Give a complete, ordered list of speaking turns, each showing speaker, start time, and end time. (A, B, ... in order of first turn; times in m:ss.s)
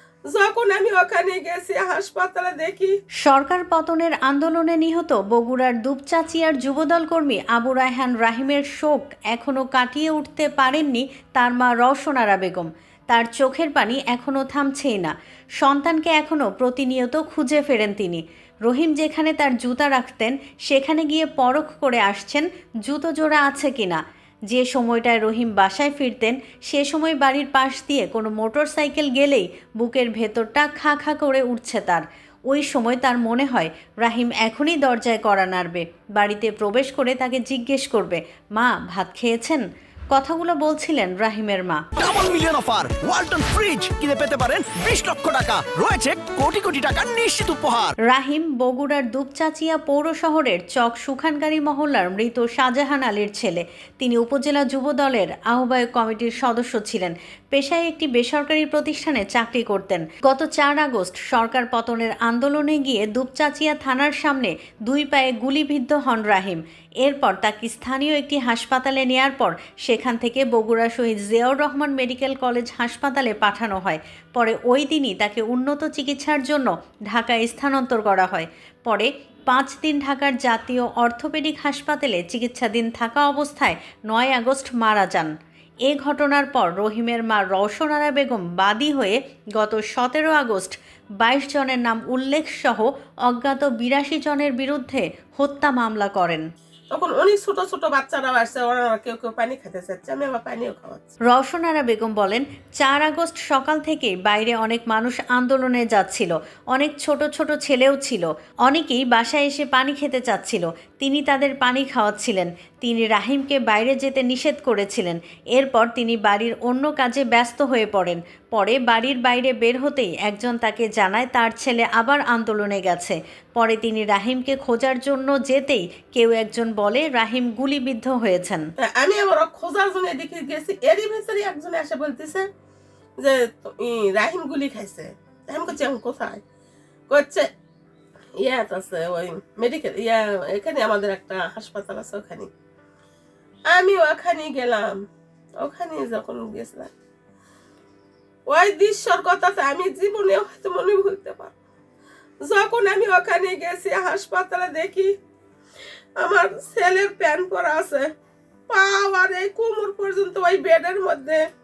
0:00.3-0:02.9 A
0:03.2-0:41.8 B
0:42.0-0:48.0 C
0:48.0-1:25.3 B
1:25.9-1:36.4 B
1:36.9-1:41.1 A
1:41.3-2:08.6 B
2:08.8-2:12.4 A
2:13.2-2:16.4 A
2:17.1-2:17.4 A
2:18.4-2:22.5 A
2:23.7-2:25.0 A
2:25.6-2:26.9 A
2:28.5-2:31.5 A
2:32.5-2:35.1 A
2:36.2-2:38.0 A
2:38.7-2:41.4 A